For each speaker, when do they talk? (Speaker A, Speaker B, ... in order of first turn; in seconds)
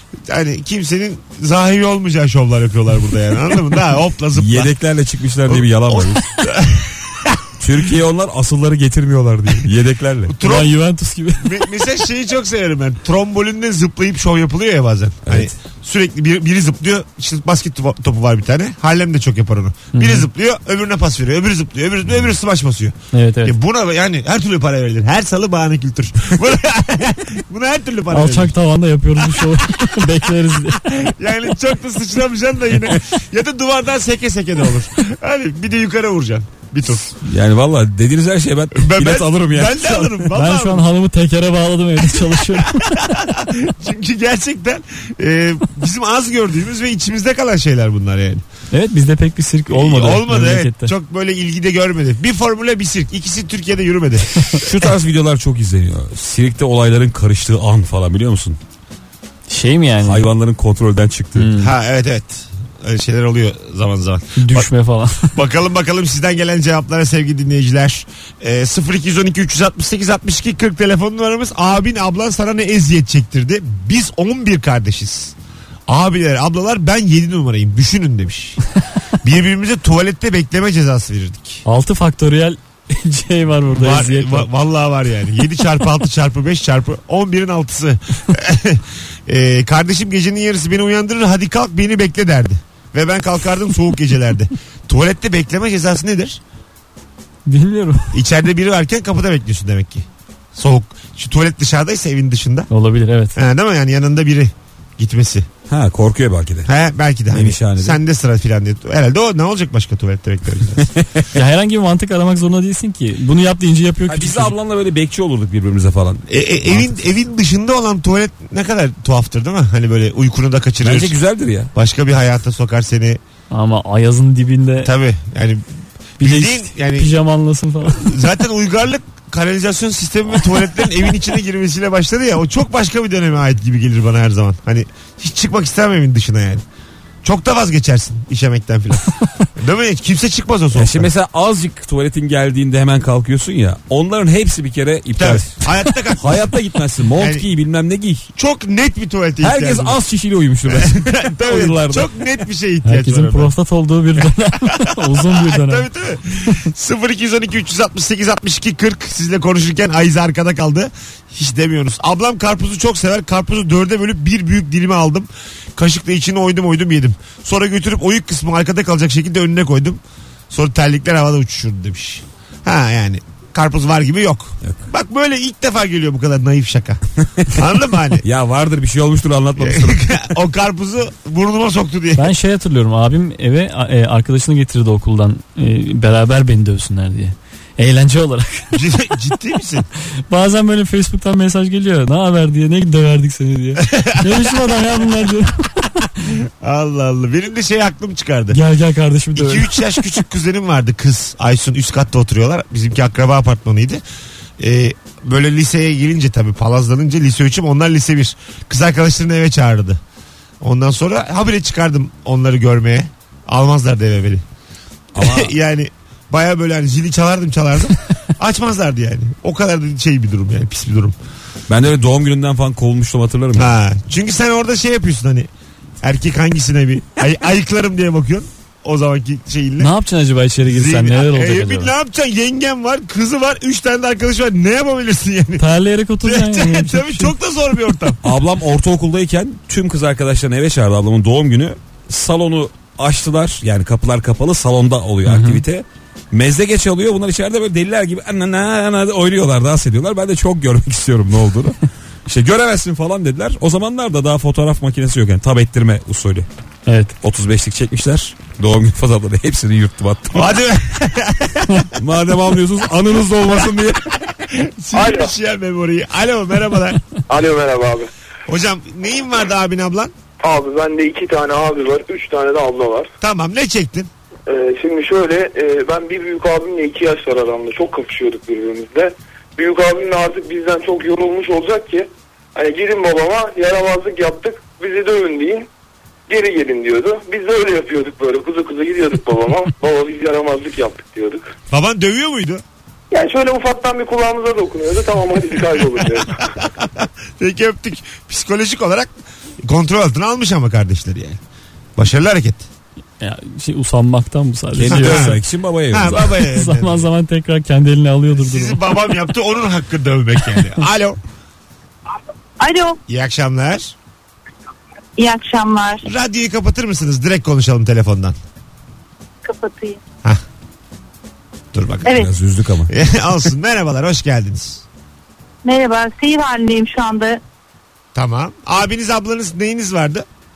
Speaker A: 0.2-4.7, 5.5-7.6, 10.3-10.8, 11.4-28.5, 29.4-30.1, 30.7-37.1, 38.7-40.9, 42.2-48.4, 49.7-54.5, 61.6-64.7, 65.3-75.3, 75.9-78.6, 79.2-81.6, 83.7-96.4, 98.1-102.7, 103.3-105.5, 106.7-110.9, 116.3-121.1, 121.7-123.2, 124.8-125.6, 126.2-127.1, 127.8-136.6, 137.2-141.1, 145.2-146.5, 147.2-147.4, 148.3-150.0, 150.7-153.5, 154.7-178.2, 179.6-182.3, 188.7-189.9, 193.8-194.6, 196.2-198.6, 199.3-204.0, 204.6-210.0, 210.6-214.4, 215.2-221.1, 223.6-225.5, 226.0-229.9, 230.6-235.6, 236.2-238.2, 260.3-261.9, 264.4-267.0, 268.5-270.1, 273.2-274.1, 291.7-292.6, 296.4-299.1, 299.6-301.4, 301.9-302.6, 304.9-305.4, 305.9-307.1, 308.4-311.2, 313.1-313.9, 316.0-318.4, 321.7-322.2, 322.9-324.8, 328.1-330.2
Speaker B: 4.3-6.3, 7.6-10.3, 15.2-15.5, 37.0-40.3, 54.5-58.6, 60.0-61.5, 105.7-106.7, 107.3-108.0, 114.1-117.0, 120.8-121.7, 140.7-148.3, 149.4-152.1, 174.6-174.9, 178.2-180.2, 215.1-215.5, 221.7-223.7, 238.2-256.5, 257.2-260.6, 261.9-264.1, 304.7-306.2, 322.1-322.9
Speaker C: 10.4-11.7, 19.9-20.3, 23.1-23.5, 28.1-30.8, 40.3-43.0, 48.7-50.9, 59.5-60.2, 61.4-61.7, 64.3-65.3, 81.6-84.5, 97.5-98.2, 102.7-103.4, 111.3-114.5, 123.5-124.9, 126.2-128.1, 152.8-155.9, 182.2-188.7, 190.3-195.9, 198.5-200.0, 229.8-231.9, 235.6-237.3, 245.2-245.6, 256.9-257.1, 303.2-305.4, 306.0-308.8
Speaker D: 264.9-265.3, 267.3-268.1, 270.4-273.1, 274.5-285.7, 286.3-291.4, 293.1-296.4
Speaker E: 312.6-313.0, 315.2-316.1, 319.4-320.0, 325.6-327.4